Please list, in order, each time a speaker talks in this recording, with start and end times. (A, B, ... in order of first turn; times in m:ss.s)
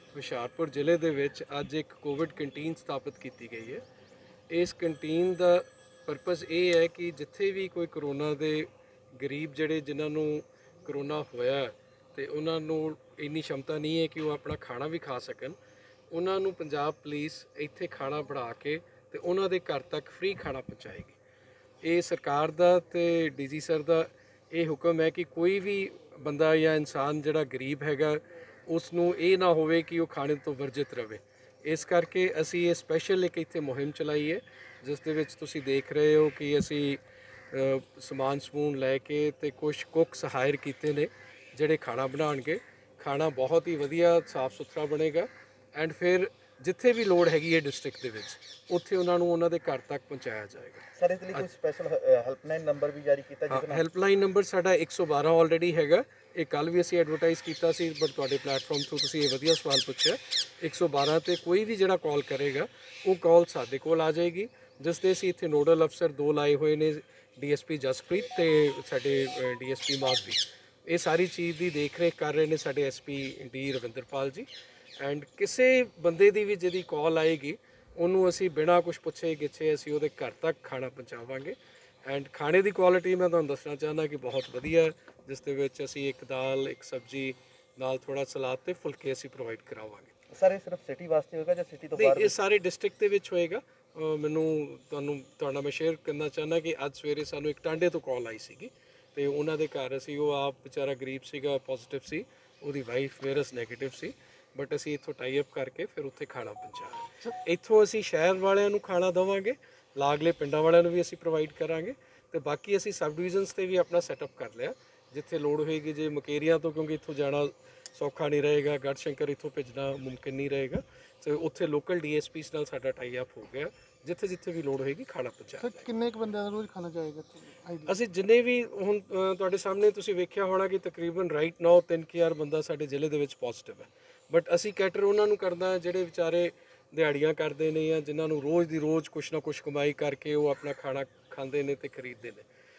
0:00.1-0:03.8 A
0:04.5-0:15.6 A
0:16.1-0:21.2 A
0:21.8-0:51.4 A
0:51.0-0:53.8 B
0:53.5-1:14.5 A
1:15.0-1:21.5 A
1:22.1-1:30.1 A
1:30.3-1:32.3 B
1:32.0-2:05.9 A
2:05.6-2:07.9 C
2:07.8-2:22.4 A